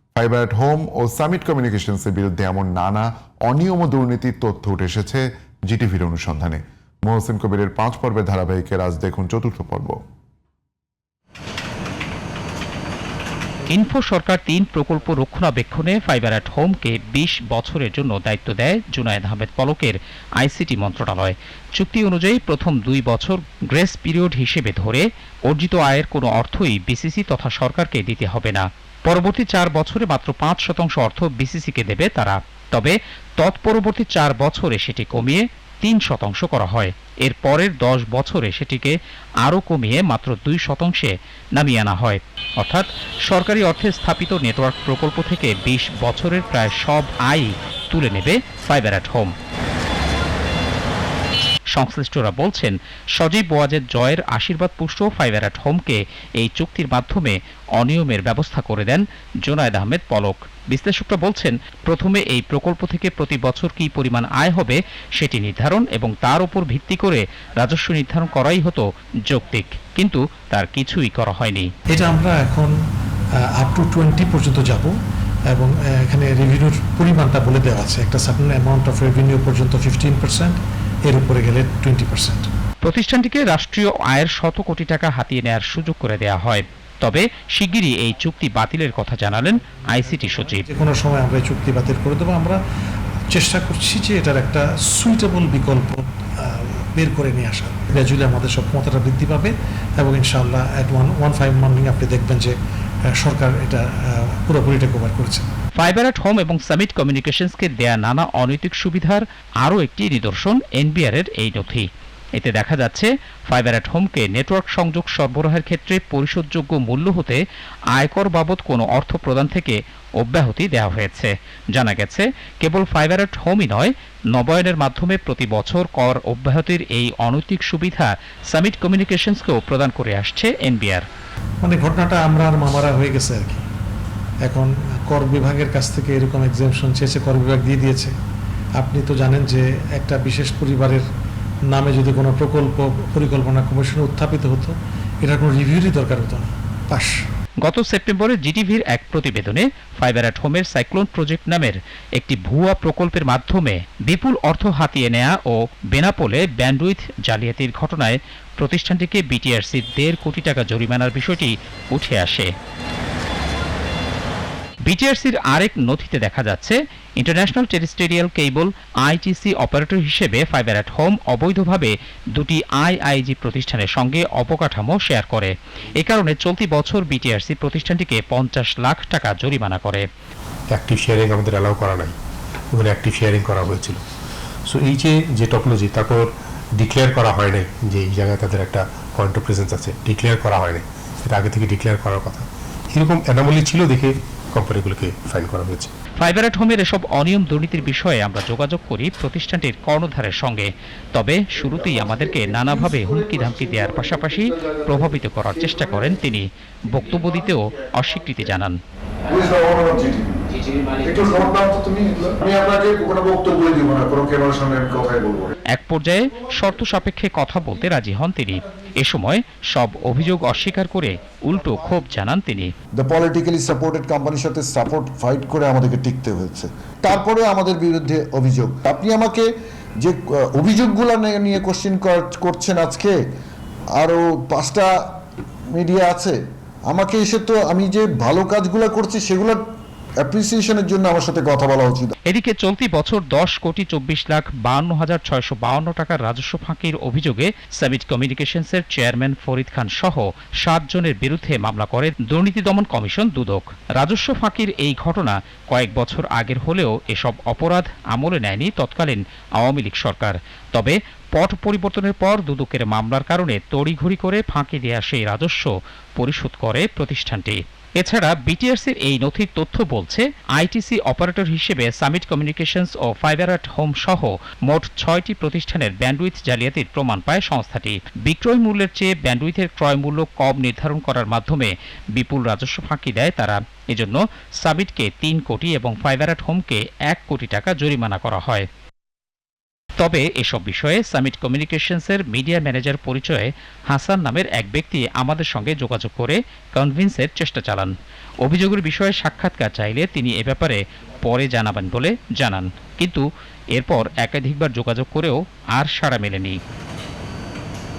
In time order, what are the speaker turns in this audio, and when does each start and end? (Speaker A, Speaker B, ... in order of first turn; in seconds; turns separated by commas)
Speaker A: 0.1-10.0, Speaker B: 13.7-49.3, Speaker B: 51.7-71.7, Speaker C: 71.9-72.7, Speaker C: 73.5-74.9, Speaker C: 75.5-82.5, Speaker B: 82.8-90.7, Speaker C: 90.7-92.6, Speaker C: 93.3-102.6, Speaker C: 103.1-105.5, Speaker B: 105.8-117.4, Speaker B: 117.9-131.0, Speaker C: 131.6-133.6, Speaker C: 134.4-138.1, Speaker C: 138.8-141.0, Speaker C: 141.7-147.2, Speaker B: 147.6-162.5, Speaker B: 164.8-180.1, Speaker D: 180.7-182.1, Speaker D: 182.7-184.0, Speaker D: 184.7-195.9, Speaker B: 196.2-208.8, Speaker E: 201.7-202.4, Speaker E: 209.3-215.5, Speaker B: 215.7-222.7, Speaker E: 223.0-229.5, Speaker E: 230.0-233.2, Speaker E: 234.0-234.9, Speaker E: 235.7-236.4, Speaker E: 236.9-239.6, Speaker E: 240.2-242.1, Speaker B: 242.3-288.7, Speaker B: 290.0-306.6